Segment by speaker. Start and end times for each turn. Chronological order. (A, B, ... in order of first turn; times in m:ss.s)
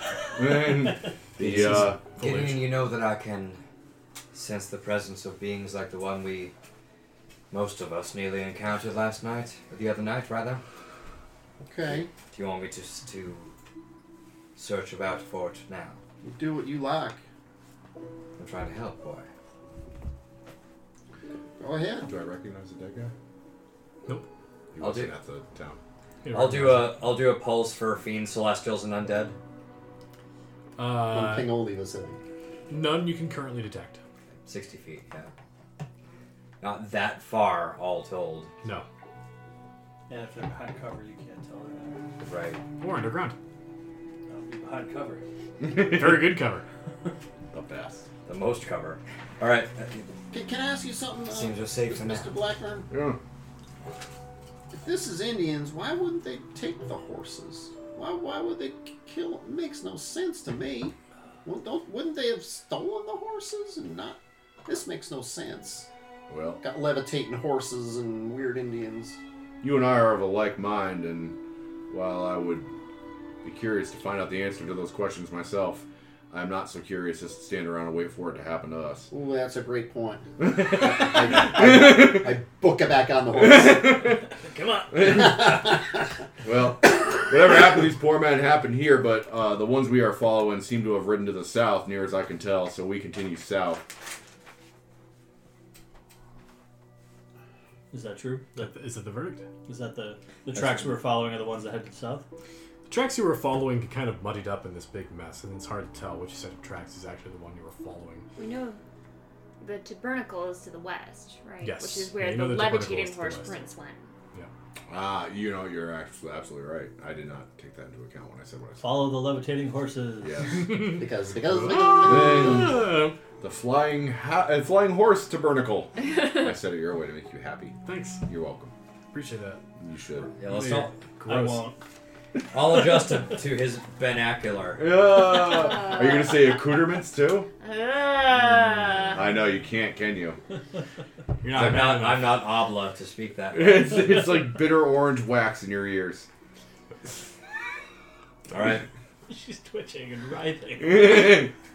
0:00.4-0:02.0 A
0:01.4-0:03.6 B
0:01.5-0:02.6 C
0:04.3-0:06.5 B
0:07.5-0:10.6 B
0:11.6-0:12.1 D
0:12.3-0:13.5 B
0:14.6-0:16.0 B
0:16.2-0:17.2 D
0:18.4-0:19.3 B
0:21.6-0:22.1 D
0:22.0-0:23.1 A
0:24.7-0:25.8 A
0:24.8-0:25.1 B
0:26.2-0:27.0 C
0:26.3-0:29.4 B
0:30.8-0:31.6 C
0:31.1-0:32.2 D
0:32.7-0:34.0 C
0:34.4-0:35.3 B
0:36.6-0:38.5 B
0:40.1-0:42.0 E
0:42.2-0:42.6 B
0:42.8-0:43.3 C
0:44.3-0:45.2 E
0:45.6-0:46.2 A
0:45.8-0:46.6 C
0:47.5-0:48.0 A
0:48.2-0:50.1 B
0:50.3-0:52.9 D
0:51.3-0:52.3 B
0:52.9-0:53.2 A
0:54.7-1:05.9 D
1:06.3-1:06.6 A
1:06.6-1:09.2 D
1:09.6-1:11.4 A
1:11.9-1:12.7 A
1:13.4-1:19.1 A
1:19.1-1:24.0 D
1:20.4-1:22.3 A
1:23.3-1:24.2 A
1:24.4-1:25.1 E
1:24.9-1:25.7 A
1:25.0-1:25.9 D
1:26.4-1:33.8 A
1:37.9-1:38.8 E
1:38.6-1:39.5 C
1:39.6-1:42.2 E
1:42.9-1:48.2 C
1:48.4-1:48.8 F
1:49.6-1:54.1 F
1:51.6-1:53.5 C
1:54.9-1:59.0 A
1:58.8-2:00.7 E
2:00.2-2:00.9 A
2:00.7-2:03.2 C
2:00.9-2:02.7 D
2:01.8-2:02.8 A
2:03.4-2:08.7 A
2:07.9-2:08.2 C
2:09.1-2:09.6 C
2:09.8-2:10.4 A
2:10.4-2:10.9 B
2:10.5-2:11.7 C
2:11.2-2:11.8 E
2:12.5-2:15.0 B
2:14.8-2:17.5 A
2:15.5-2:16.3 F
2:17.6-2:19.2 F
2:19.1-2:20.4 A
2:21.4-2:22.4 C
2:21.5-2:23.9 B
2:23.5-2:26.3 A
2:28.5-2:28.8 B
2:29.3-2:31.4 E
2:30.8-2:31.5 A